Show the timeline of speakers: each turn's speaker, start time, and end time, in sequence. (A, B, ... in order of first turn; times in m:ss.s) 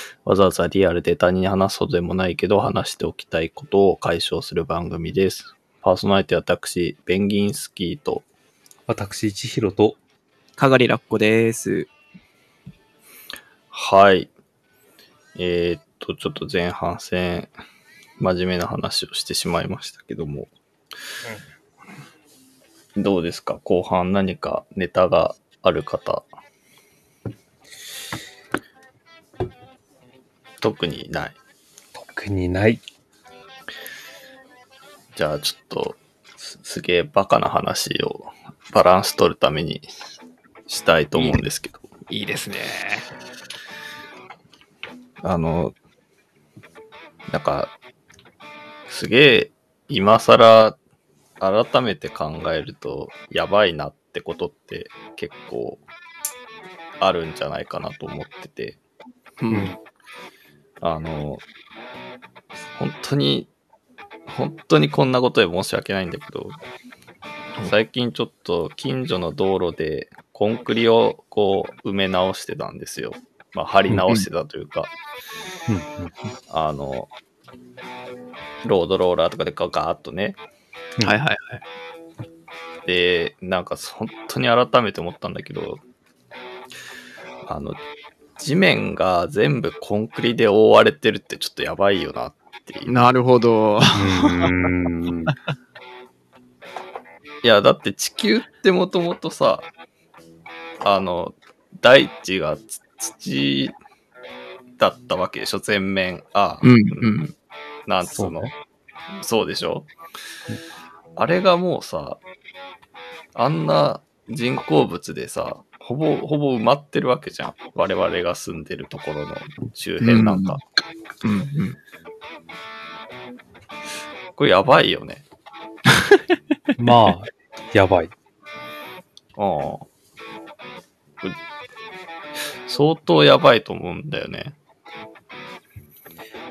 0:00.2-0:08.3 A
0:08.9-0:10.0 B
0:10.6-0:11.9 C
0:13.7-0:14.3 A
0:15.4-0:17.5 A
0:18.2-0:20.5 A
0:23.0-0:26.3 A
0:30.6-0:31.4 A
0:31.9-0:32.8 B
0:35.1-0:39.9 A
0:40.7-0:41.8 A
0:42.1-0:43.1 C
0:45.2-0:45.8 A
0:47.3-0:47.7 A
0:48.9-0:50.8 A
0:51.4-0:55.8 A
0:57.0-0:58.8 A
0:59.4-0:59.7 C
0:59.5-0:59.8 B
1:00.8-1:01.4 A
1:02.7-1:03.5 A
1:04.3-1:06.6 A
1:07.6-1:14.9 A
1:13.9-1:14.2 B
1:15.7-1:16.1 B
1:16.5-1:17.1 A
1:18.6-1:20.4 A
1:21.0-1:21.6 C
1:22.8-1:25.8 A
1:27.4-1:27.8 A
1:28.4-1:32.9 A
1:32.8-1:34.5 C
1:33.9-1:35.3 B
1:37.4-1:39.7 A
1:40.8-1:43.8 A
1:44.8-1:47.3 A
1:46.6-1:47.2 C
1:47.9-1:48.5 A
1:48.0-1:48.5 B
1:49.1-1:49.9 A
1:51.2-1:52.2 A
1:53.3-2:00.6 A
2:00.0-2:00.6 C
2:01.2-2:01.8 C
2:04.4-2:05.2 A
2:05.9-2:06.2 C
2:06.8-2:08.1 B
2:09.4-2:09.8 A
2:12.6-2:14.6 A